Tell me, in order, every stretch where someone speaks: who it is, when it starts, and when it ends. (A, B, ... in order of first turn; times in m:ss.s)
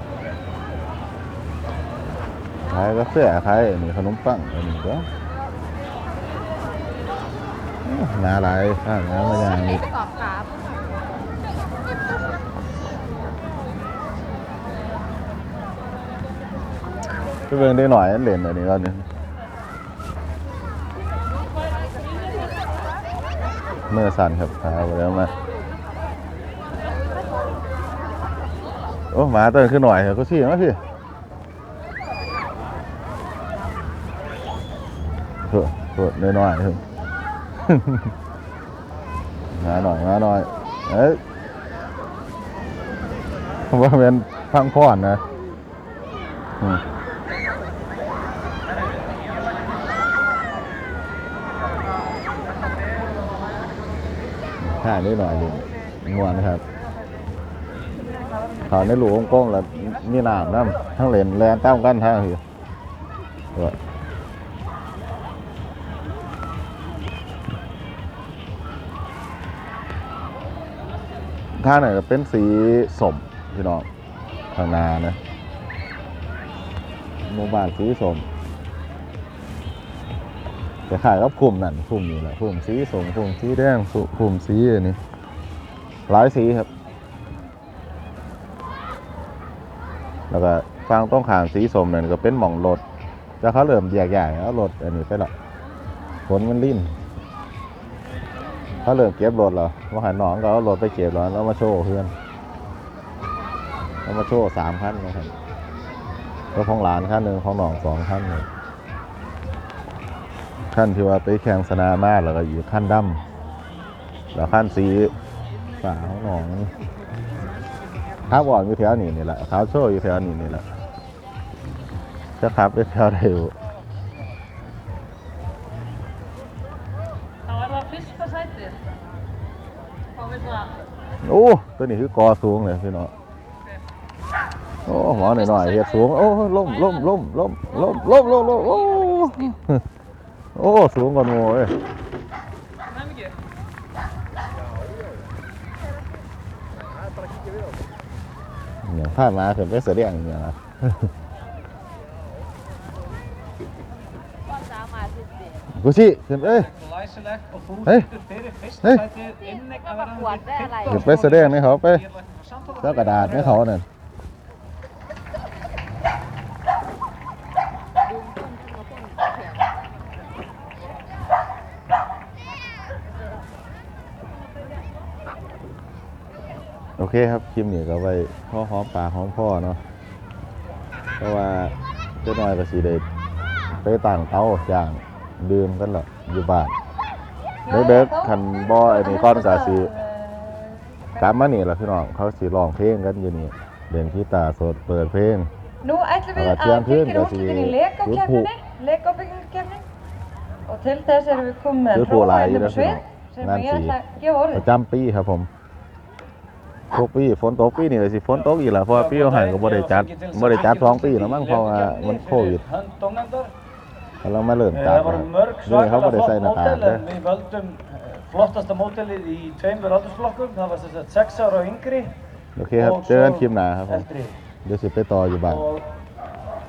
0:02.7-0:05.1 A
0:07.8-0:09.9 A
0:09.9-0:10.7 B
0:17.5-0:19.1 A
0:23.9-0:25.3 A
0:29.1-0:30.8 A
0:35.5-0:36.8 A
0:37.6-0:38.1 A
0:39.6-0:41.2 A
0:43.7-0:45.2 A
0:54.6-0:56.6 A
0:58.6-1:02.4 A
1:11.6-1:13.9 A
1:14.5-1:15.2 A
1:17.2-1:18.2 A
1:20.9-1:25.0 A
1:26.1-1:26.7 A
1:30.3-1:32.8 A
1:33.4-1:35.3 A
1:36.3-1:36.9 A
1:38.8-1:42.1 A
1:44.1-1:45.3 A
1:46.6-1:48.5 A
1:50.7-1:53.2 A
1:54.3-1:55.1 A
1:55.8-1:56.7 A
1:58.3-2:00.6 A
2:02.4-2:03.5 A
2:07.5-2:08.8 C
2:11.2-2:13.1 A
2:14.9-2:19.8 A
2:20.6-2:21.8 A
2:28.8-2:31.1 A
2:34.7-2:35.5 B
2:35.8-2:36.7 A
2:36.7-2:43.4 D
2:37.8-2:38.1 A
2:38.8-2:39.1 A
2:40.0-2:40.9 B
2:40.8-2:42.1 A
2:42.8-2:43.8 A
2:48.3-2:49.1 B
2:57.0-2:59.8 A
3:01.2-3:03.0 A
3:03.8-3:06.8 A
3:07.7-3:11.2 C
3:07.7-3:09.9 A
3:11.2-3:15.5 A
3:15.8-3:19.8 C
3:16.3-3:18.5 A
3:20.7-3:24.6 C
3:21.9-3:24.0 A
3:24.5-3:25.5 A
3:26.9-3:32.6 A
3:29.1-3:33.5 D
3:34.2-3:37.1 A
3:34.9-3:42.2 D
3:42.6-3:44.1 A
3:42.8-3:43.4 D
3:44.0-3:44.4 D
3:44.6-3:45.7 A